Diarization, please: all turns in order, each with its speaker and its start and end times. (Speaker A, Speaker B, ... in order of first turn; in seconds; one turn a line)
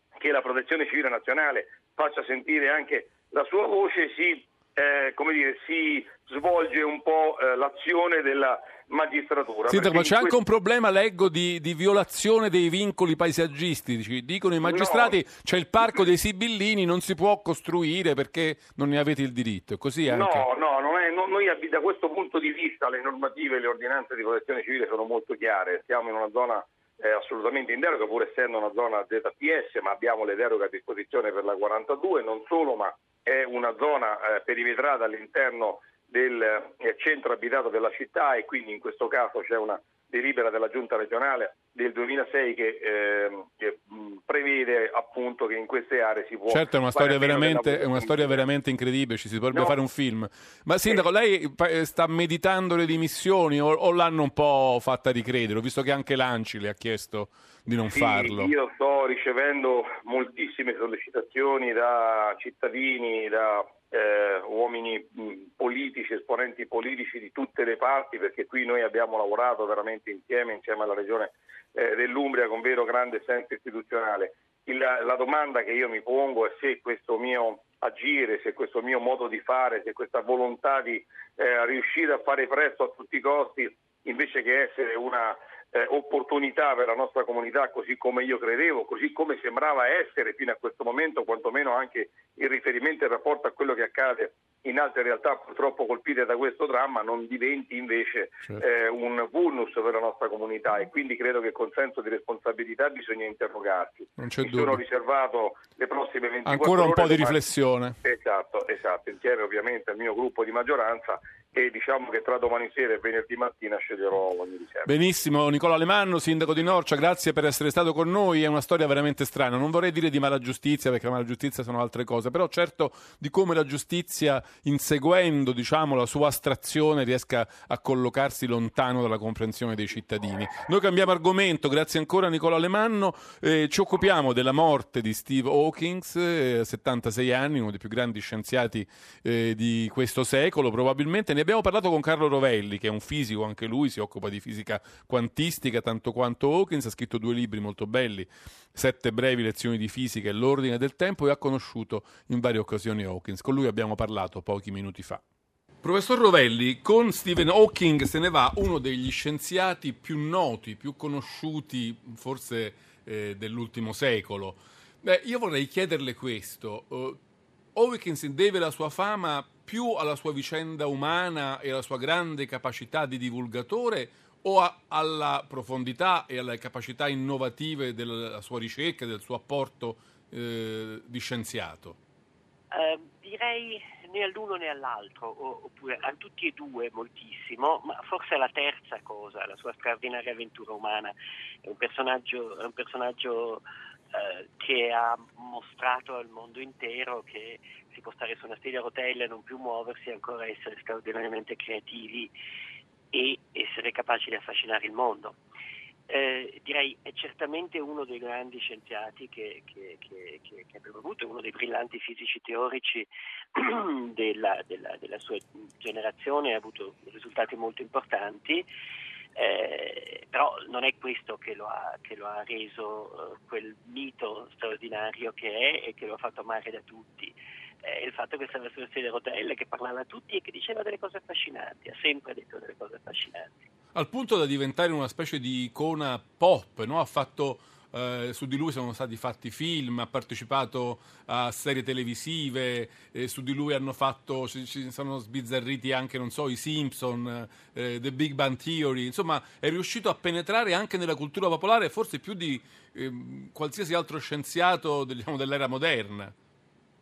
Speaker A: 0.2-10.4
Speaker B: 9.7-20.5
Speaker A: 14.6-15.2
Speaker A: 20.1-48.4
Speaker B: 46.5-58.5
Speaker A: 57.9-107.4
Speaker B: 104.2-104.8
Speaker B: 106.5-108.0
Speaker A: 108.0-114.9
Speaker B: 114.9-155.2
Speaker B: 155.8-167.2
Speaker B: 167.8-182.0
Speaker C: 182.7-191.1
Speaker C: 191.6-202.3
Speaker C: 203.1-205.4
Speaker C: 206.1-218.7
Speaker C: 219.4-233.7
Speaker B: 233.9-256.3